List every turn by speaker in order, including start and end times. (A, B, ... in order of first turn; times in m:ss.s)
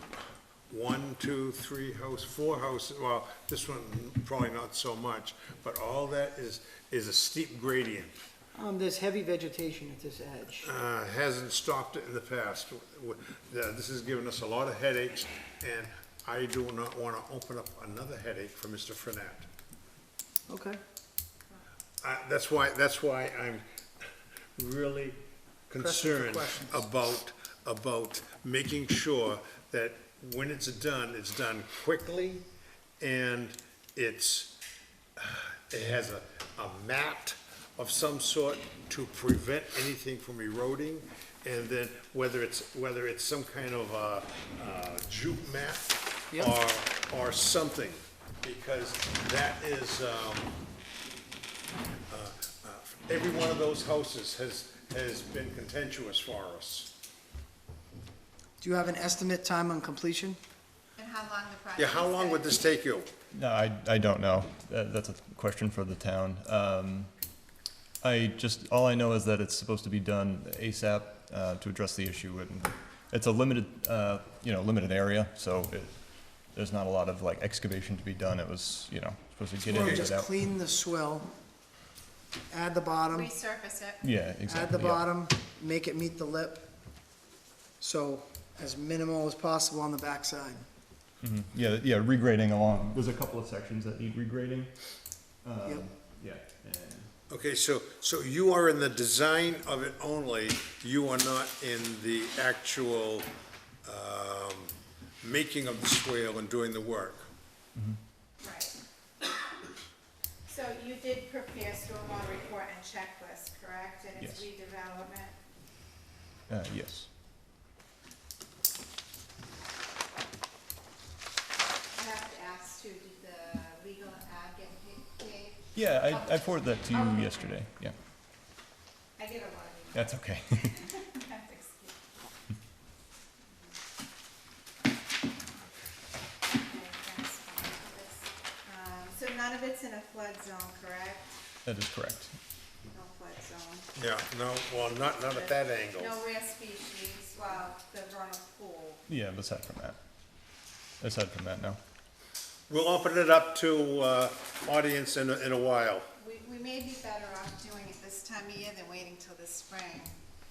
0:00.7-0:08.3 A
0:08.5-0:10.7 B
0:10.6-0:19.5 A
0:20.5-0:20.8 B
0:22.0-0:32.4 A
0:25.7-0:26.9 B
0:33.0-0:34.6 A
0:35.2-0:50.5 A
0:52.1-0:56.9 A
0:58.6-1:00.4 B
1:01.0-1:02.8 C
1:01.8-1:03.1 A
1:03.3-1:07.1 D
1:08.0-1:20.3 D
1:19.6-1:21.3 B
1:22.5-1:23.3 B
1:23.1-1:24.0 C
1:24.0-1:25.1 D
1:24.5-1:26.7 B
1:27.8-1:30.6 B
1:31.2-1:37.1 D
1:37.3-1:43.3 A
1:43.8-1:47.3 A
1:47.7-1:48.0 D
1:48.4-1:48.8 C
1:50.5-1:55.4 C
1:54.2-1:54.5 D
1:56.5-1:57.1 D
2:01.9-2:07.5 C
2:05.7-2:08.0 D
2:09.2-2:10.1 C
2:09.9-2:10.9 D
2:10.6-2:12.0 C
2:16.6-2:21.4 C
2:21.6-2:22.3 D
2:22.9-2:23.9 C
2:24.0-2:26.2 A
2:25.1-2:29.0 C
2:29.1-2:30.0 D
2:31.0-2:31.8 D
2:32.7-2:36.1 A
2:36.2-2:40.2 C